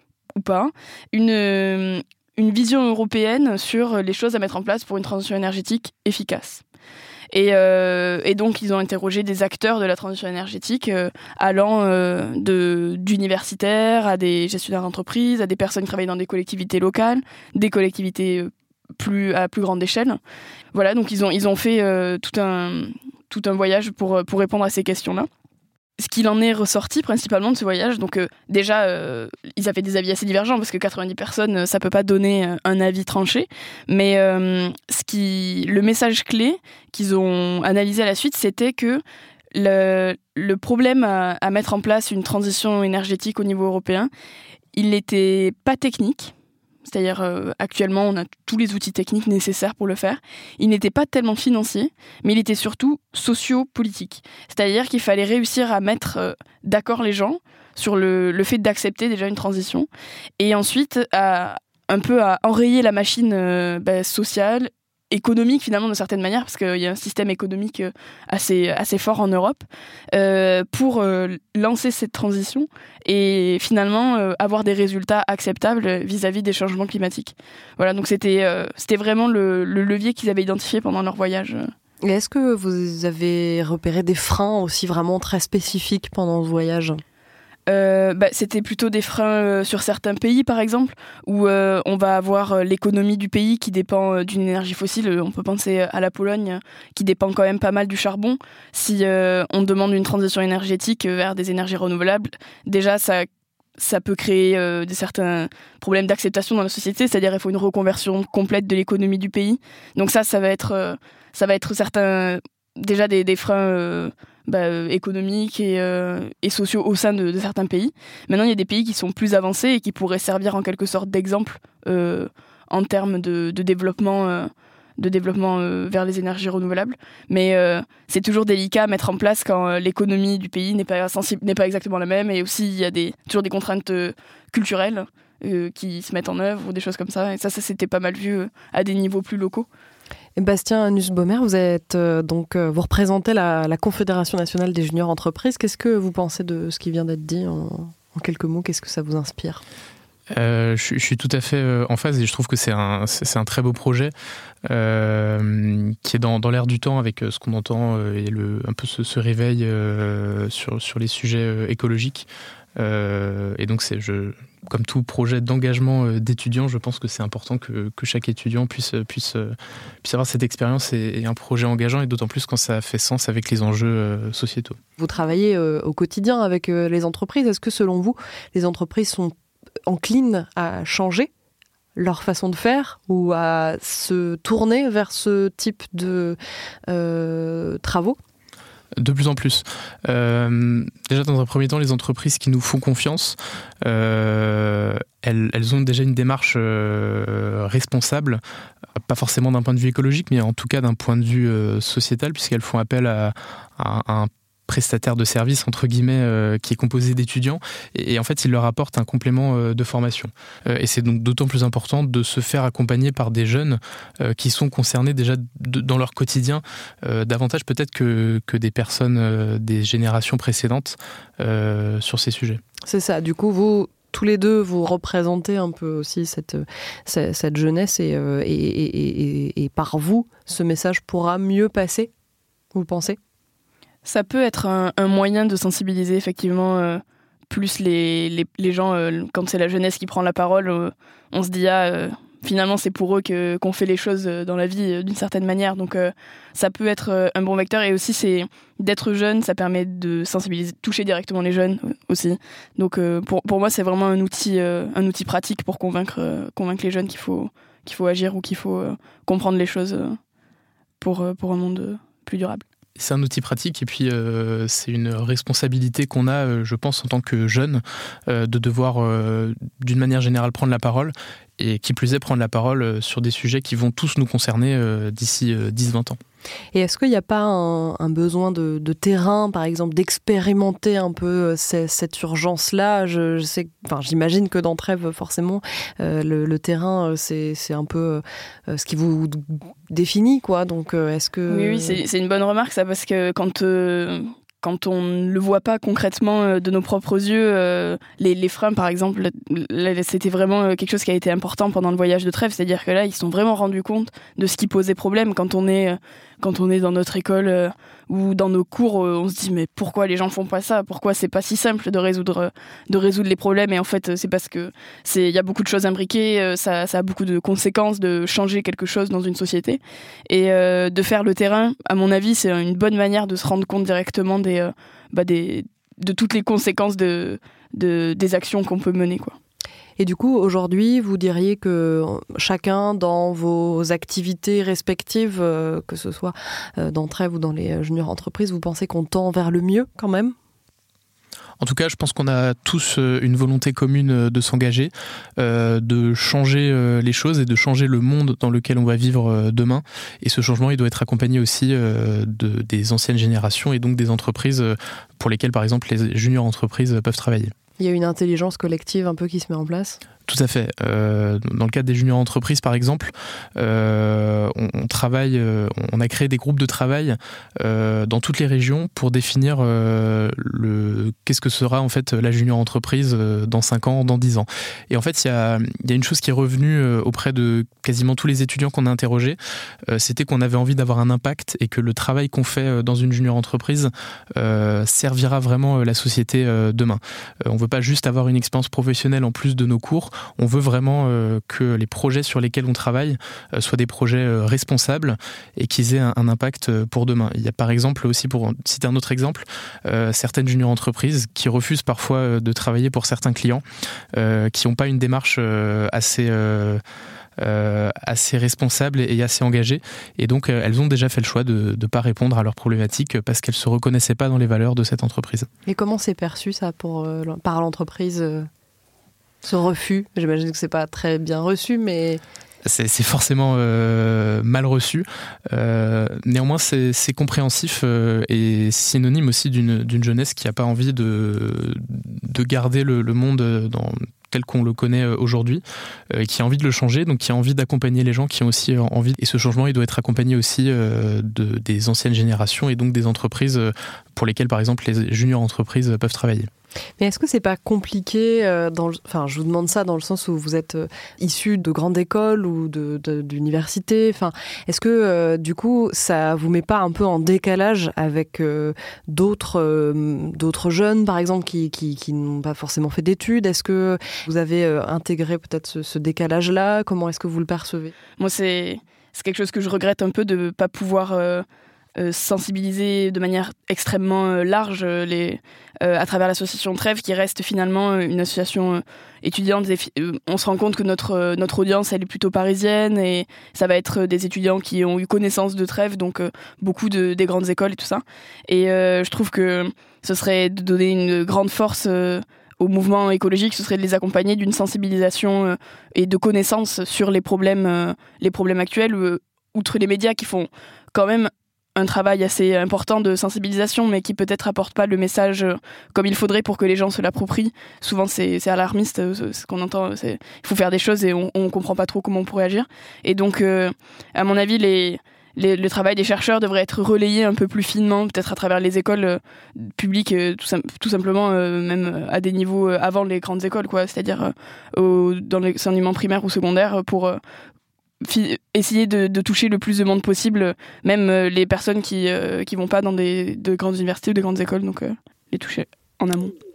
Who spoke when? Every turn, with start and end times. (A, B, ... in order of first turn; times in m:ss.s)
0:00.4-0:06.6 A
0:07.3-0:20.2 A
0:20.7-0:25.3 A
0:26.0-0:39.0 A
0:39.5-0:44.1 A
0:44.7-0:46.3 A
0:46.8-0:59.9 A
1:00.4-1:21.7 A
1:22.0-1:27.0 B
1:27.7-2:19.7 A
2:20.4-2:29.6 B
2:30.3-2:34.1 C
2:34.7-2:54.8 C
2:55.0-2:59.3 B
2:59.9-3:01.3 B
3:01.9-3:08.2 B
3:09.0-3:18.4 C
3:19.1-3:42.6 C
3:42.8-3:52.1 B
3:52.7-3:53.2 B
3:54.0-4:20.2 A
4:21.0-4:22.6 A
4:23.0-4:36.2 C
4:36.7-4:52.0 B
4:51.5-5:29.4 A
5:30.0-5:40.3 B
5:41.6-5:57.5 C
5:57.8-6:00.0 B
6:00.3-6:19.4 C
6:19.9-6:43.6 C
6:44.1-6:46.8 C
6:47.4-6:55.5 C
6:55.7-6:58.5 B
6:59.4-7:02.2 B
7:02.6-7:26.5 C
7:27.0-7:47.9 B
7:48.2-7:51.4 A
7:52.0-8:47.2 A
8:48.0-8:56.3 A